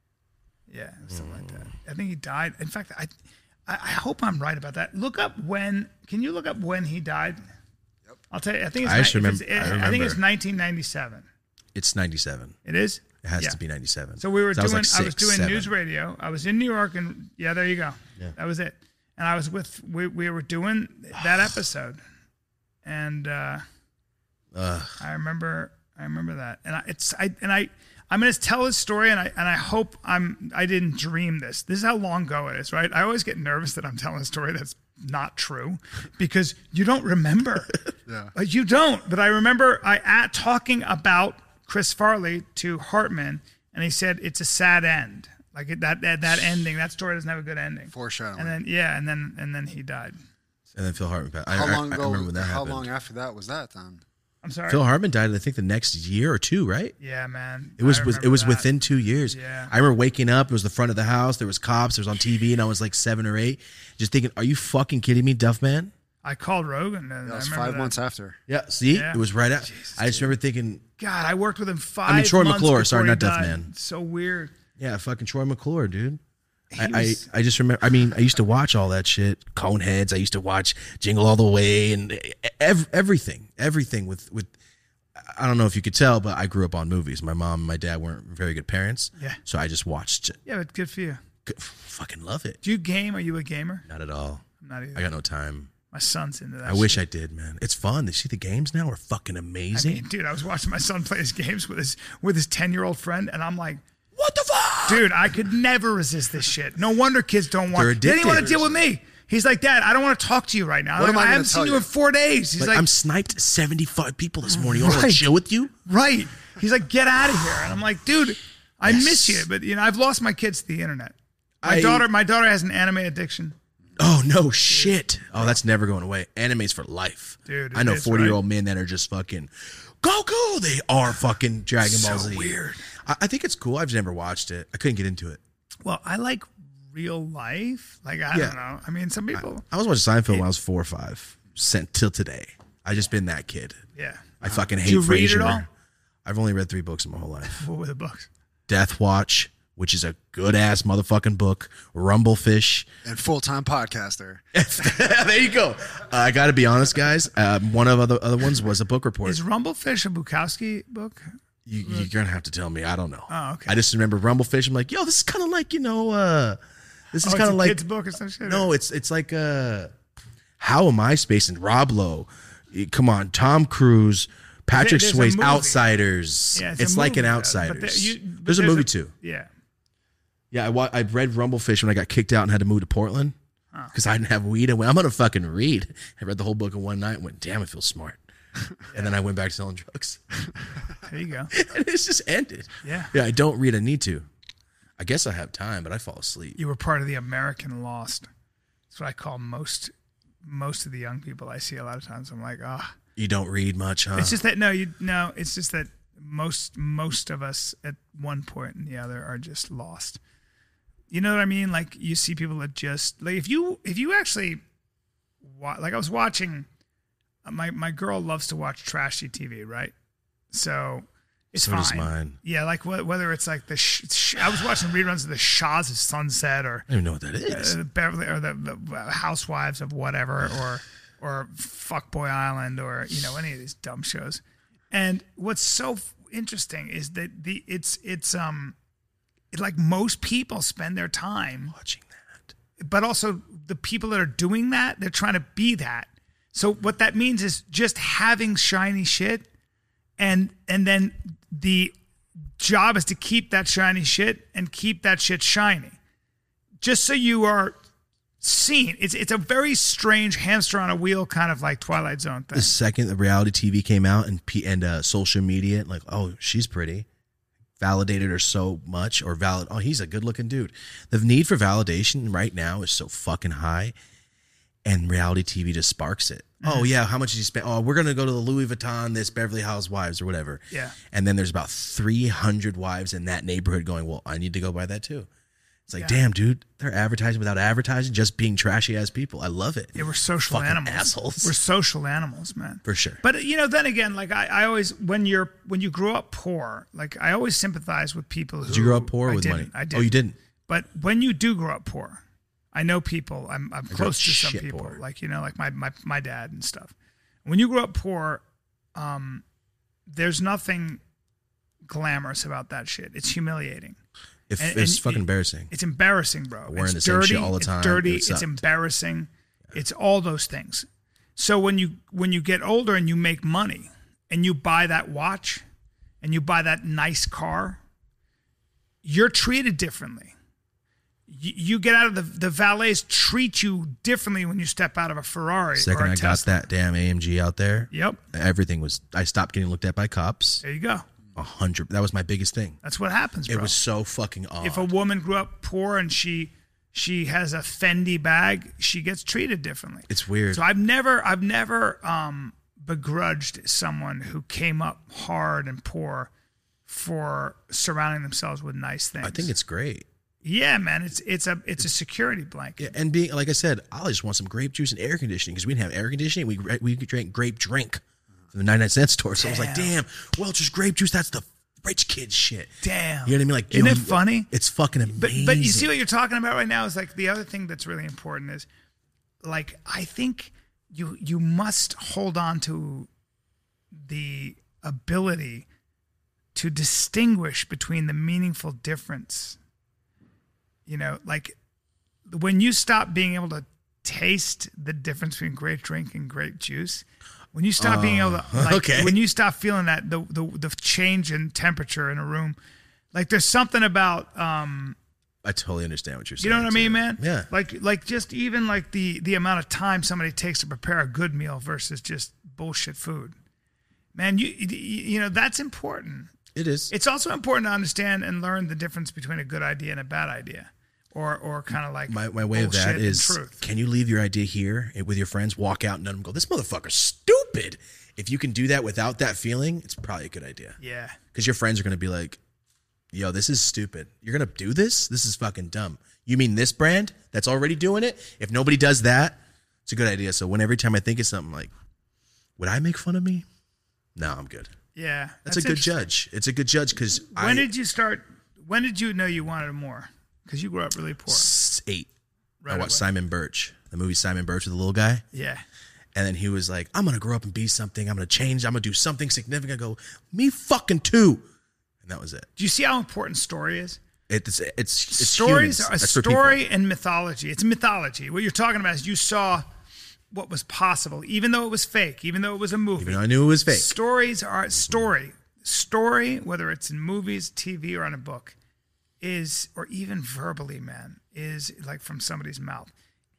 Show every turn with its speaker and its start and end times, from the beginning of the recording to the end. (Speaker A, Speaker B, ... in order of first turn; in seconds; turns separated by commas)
Speaker A: 0.7-3.1, Speaker B: 1.1-1.5, Speaker A: 3.7-7.4, Speaker A: 8.3-11.2, Speaker B: 8.8-10.2, Speaker B: 11.8-12.6, Speaker A: 12.7-13.6, Speaker B: 13.2-15.7, Speaker A: 14.2-22.0, Speaker A: 22.9-23.6, Speaker B: 24.5-25.0, Speaker A: 25.0-37.8, Speaker C: 38.1-38.3, Speaker A: 38.4-50.2, Speaker C: 47.9-48.6, Speaker B: 50.8-52.9, Speaker C: 51.5-54.0, Speaker A: 54.4-54.8, Speaker B: 54.7-57.0, Speaker A: 57.0-58.7, Speaker B: 57.8-65.9, Speaker A: 59.3-59.7, Speaker A: 66.2-68.0, Speaker C: 67.3-68.4, Speaker B: 68.5-70.8, Speaker A: 68.9-70.3, Speaker A: 71.0-74.5, Speaker B: 72.1-73.7, Speaker B: 74.8-76.2, Speaker A: 76.7-77.2, Speaker B: 76.8-84.5, Speaker B: 85.2-90.4, Speaker A: 90.5-91.2, Speaker B: 91.5-92.6, Speaker A: 92.6-93.8, Speaker B: 93.9-94.4, Speaker A: 94.6-95.1, Speaker B: 95.0-95.7, Speaker A: 95.9-97.0, Speaker B: 96.7-100.0, Speaker A: 99.7-103.8, Speaker B: 104.2-105.1, Speaker A: 104.8-112.9, Speaker B: 107.7-108.6, Speaker C: 108.2-108.8, Speaker C: 111.0-111.9, Speaker B: 112.6-115.7, Speaker A: 114.6-115.2, Speaker A: 115.9-123.5, Speaker B: 118.8-119.5, Speaker B: 121.6-122.1, Speaker B: 124.0-135.4, Speaker A: 124.7-125.6, Speaker A: 127.5-128.4, Speaker A: 131.8-132.9, Speaker A: 135.8-139.7, Speaker B: 138.3-138.6, Speaker B: 139.3-143.8, Speaker A: 144.0-145.7, Speaker B: 144.4-145.7, Speaker B: 146.2-147.7, Speaker A: 147.6-148.3, Speaker B: 148.7-152.9, Speaker C: 153.0-154.4, Speaker B: 154.5-159.4, Speaker A: 159.2-161.2, Speaker B: 161.7-166.6, Speaker A: 163.3-163.8, Speaker B: 167.1-167.8, Speaker A: 167.2-168.7, Speaker B: 168.4-169.9, Speaker B: 170.6-179.1, Speaker A: 174.7-175.9, Speaker A: 176.5-179.5, Speaker B: 180.5-183.3, Speaker B: 183.9-188.2, Speaker B: 188.9-190.2, Speaker A: 191.1-191.5, Speaker B: 191.5-194.3, Speaker A: 192.8-193.1, Speaker B: 195.0-196.6, Speaker A: 196.6-198.3, Speaker A: 198.9-199.9, Speaker A: 200.4-202.9, Speaker B: 203.2-204.4, Speaker A: 204.2-210.2, Speaker A: 211.1-214.6, Speaker A: 215.4-216.7, Speaker A: 217.4-219.9, Speaker A: 220.5-226.9, Speaker B: 221.6-222.4, Speaker B: 226.9-227.8, Speaker A: 227.5-238.8, Speaker A: 239.5-241.8, Speaker B: 241.7-242.5, Speaker A: 242.8-249.5, Speaker A: 250.2-251.9, Speaker A: 252.6-256.0, Speaker A: 256.8-257.8, Speaker A: 258.4-262.7, Speaker B: 262.5-267.1, Speaker B: 267.8-273.9, Speaker B: 274.9-285.3, Speaker A: 276.6-276.9, Speaker A: 280.7-281.0, Speaker B: 285.9-290.0, Speaker A: 290.0-300.1, Speaker B: 290.5-291.5, Speaker B: 292.9-293.2, Speaker B: 298.7-300.4, Speaker A: 300.7-302.2, Speaker A: 302.7-306.9, Speaker B: 303.9-305.0, Speaker A: 307.4-308.4, Speaker A: 308.9-309.4, Speaker A: 310.1-311.0, Speaker A: 311.9-314.0, Speaker B: 314.5-315.7, Speaker A: 314.6-325.6, Speaker B: 316.7-318.6, Speaker A: 326.2-327.8, Speaker A: 329.0-330.3, Speaker A: 331.3-336.5, Speaker B: 335.8-340.6, Speaker A: 337.9-338.2, Speaker A: 340.6-341.1, Speaker B: 341.4-342.8, Speaker A: 342.8-343.8, Speaker B: 343.5-344.9, Speaker A: 344.6-356.3, Speaker B: 350.1-350.6, Speaker A: 356.9-359.5, Speaker B: 359.2-360.1, Speaker A: 360.4-362.9, Speaker B: 362.8-368.0, Speaker B: 368.5-372.7, Speaker A: 369.4-369.9, Speaker A: 372.8-374.5, Speaker B: 373.3-375.9, Speaker A: 375.1-378.7, Speaker A: 379.4-383.1, Speaker A: 384.1-385.7, Speaker A: 386.6-389.6, Speaker A: 390.9-391.6, Speaker A: 392.3-402.6, Speaker B: 397.8-399.2, Speaker A: 403.1-405.0, Speaker B: 405.4-407.5, Speaker A: 406.4-413.3, Speaker A: 414.1-416.3, Speaker B: 416.6-416.9, Speaker A: 416.9-423.6, Speaker B: 422.1-430.8, Speaker A: 430.8-431.2, Speaker B: 431.3-432.4, Speaker B: 433.1-441.7, Speaker B: 442.6-443.5, Speaker B: 444.2-444.7, Speaker A: 445.0-446.0, Speaker B: 445.5-447.7, Speaker A: 447.3-451.5, Speaker B: 451.3-452.1, Speaker A: 452.6-453.1, Speaker B: 452.7-455.2, Speaker A: 455.3-455.6, Speaker B: 456.1-461.4, Speaker B: 462.0-462.5, Speaker A: 462.6-464.0, Speaker B: 464.3-466.6, Speaker A: 465.1-469.6, Speaker A: 470.3-478.6, Speaker B: 473.0-474.0, Speaker A: 479.2-482.9